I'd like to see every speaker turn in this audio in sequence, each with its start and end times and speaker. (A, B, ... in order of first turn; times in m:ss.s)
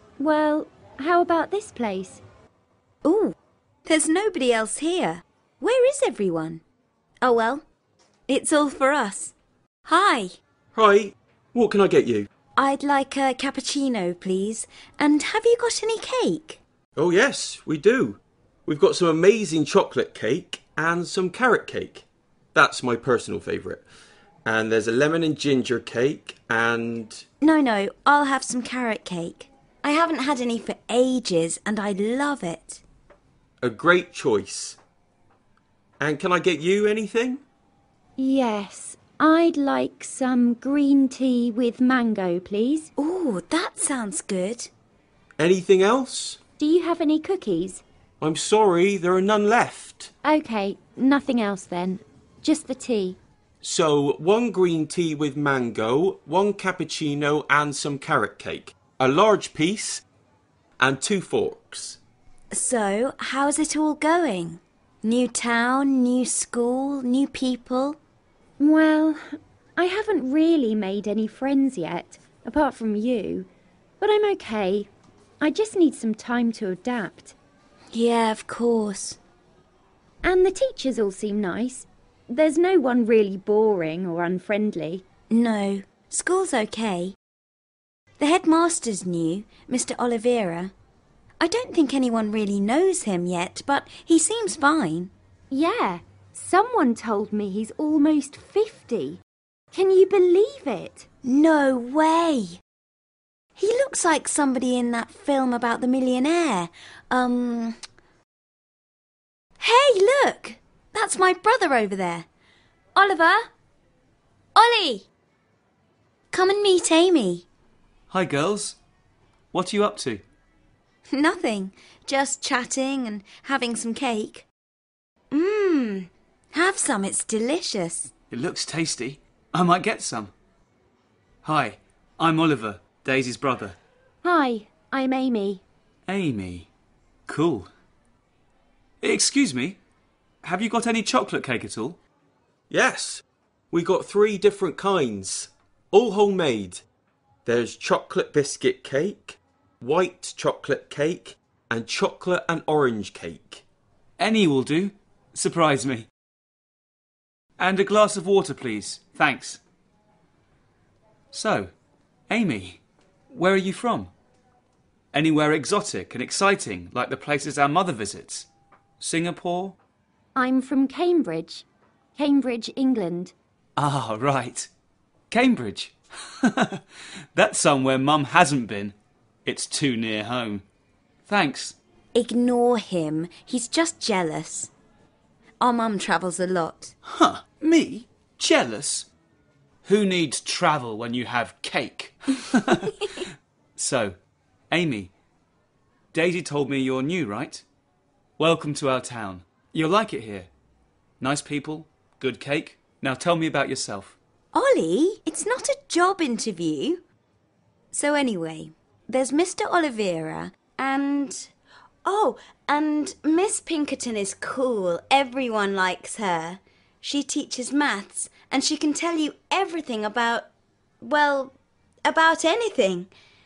0:00.2-0:02.2 A
0:03.0-0:03.3 B
0:03.8-0:06.6 B
0:07.2-0:07.6 B
0:08.3-0:09.3 B
0:09.8-0:10.4 B
0:10.7-0:12.3 C
0:12.6-0:16.6 B
0:17.0-0:23.8 C
0:24.4-0:27.2 C
0:27.4-0:32.8 B
0:33.6-0:34.8 C
0:36.0-0:37.4 C
0:38.2-0:42.9 A
0:43.0-0:44.7 B
0:45.4-0:46.4 C
0:46.6-0:47.8 A
0:48.2-0:50.1 C
0:50.2-0:53.2 A
0:53.6-1:00.0 C
1:00.8-1:02.0 C
1:02.5-1:08.0 B
1:08.6-1:13.5 A
1:14.0-1:14.9 A
1:15.4-1:17.4 A
1:17.9-1:19.2 B
1:20.2-1:25.0 A
1:25.3-1:27.1 B
1:28.2-1:30.7 B
1:31.4-1:35.1 B
1:35.5-1:39.2 A
1:39.7-1:41.1 A
1:41.2-1:42.6 B
1:43.6-1:47.8 B
1:49.6-1:52.3 B
1:52.9-1:53.5 B
1:54.5-1:55.1 B
1:56.3-1:57.5 B
1:58.1-1:58.8 D
1:59.5-2:00.2 D
2:01.1-2:04.4 B
2:05.3-2:08.1 B
2:08.3-2:10.3 D
2:11.4-2:13.8 D
2:14.2-2:15.6 A
2:16.1-2:16.7 D
2:17.3-2:17.7 D
2:19.0-2:19.8 D
2:20.4-2:22.0 D
2:22.7-2:26.8 C
2:27.4-2:33.6 C
2:34.2-2:36.1 D
2:37.6-2:39.6 D
2:41.3-2:41.7 D
2:42.3-2:44.1 D
2:45.1-2:48.5 D
2:49.0-2:49.8 D
2:50.3-2:53.3 A
2:53.8-2:54.7 D
2:55.3-2:56.8 D
2:57.3-3:00.6 D
3:01.3-3:01.8 D
3:02.1-3:04.7 B
3:05.6-3:06.9 B
3:07.0-3:09.1 D
3:09.8-3:13.2 D
3:13.8-3:14.2 D
3:14.7-3:15.1 D
3:16.1-3:17.6 D
3:18.4-3:20.5 D
3:21.2-3:24.2 D
3:24.5-3:27.0 B
3:27.9-3:31.5 B
3:32.0-3:40.5 B
3:41.0-3:43.1 B